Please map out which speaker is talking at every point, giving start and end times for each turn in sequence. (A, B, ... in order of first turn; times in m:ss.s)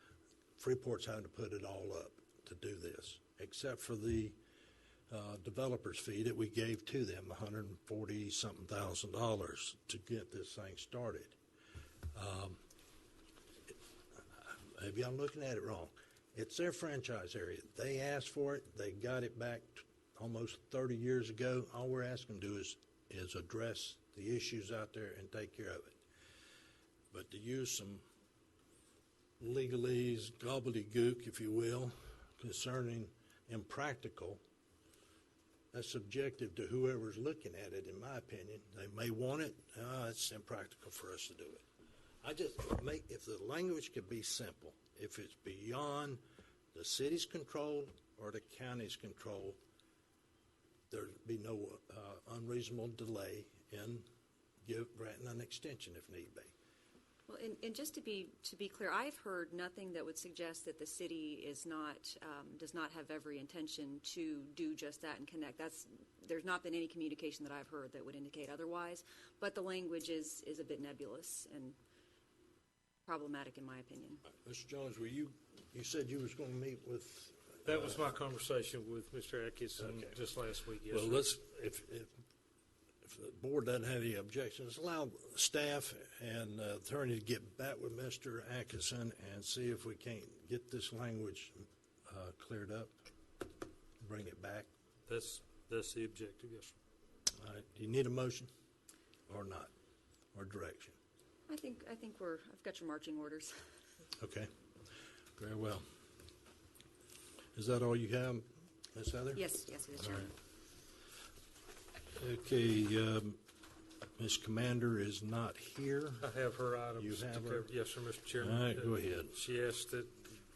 0:00.6-0:04.4 A
0:05.1-0:11.4 A
0:12.1-0:12.6 A
0:14.3-0:26.0 A
0:27.1-0:28.0 A
0:29.4-0:34.4 A
0:35.7-0:41.6 A
0:42.2-0:46.2 A
0:46.7-0:49.6 A
0:50.9-0:54.1 A
0:54.6-0:56.5 A
0:57.4-0:58.2 B
0:58.7-0:59.0 B
0:59.7-1:05.8 B
1:06.3-1:11.7 B
1:13.1-1:14.2 B
1:14.3-1:18.0 A
1:17.6-1:21.3 C
1:19.8-1:20.2 A
1:20.9-1:22.1 A
1:23.0-1:32.9 A
1:34.0-1:34.7 A
1:35.1-1:36.8 C
1:37.4-1:38.5 A
1:39.3-1:39.7 A
1:40.3-1:41.0 A
1:41.5-1:43.4 B
1:44.2-1:44.5 A
1:45.4-1:45.9 A
1:47.6-1:50.3 A
1:49.5-1:49.8 B
1:52.1-1:53.4 A
1:54.2-1:56.2 A
1:56.2-2:00.3 C
1:57.0-1:57.7 A
1:58.4-1:59.4 A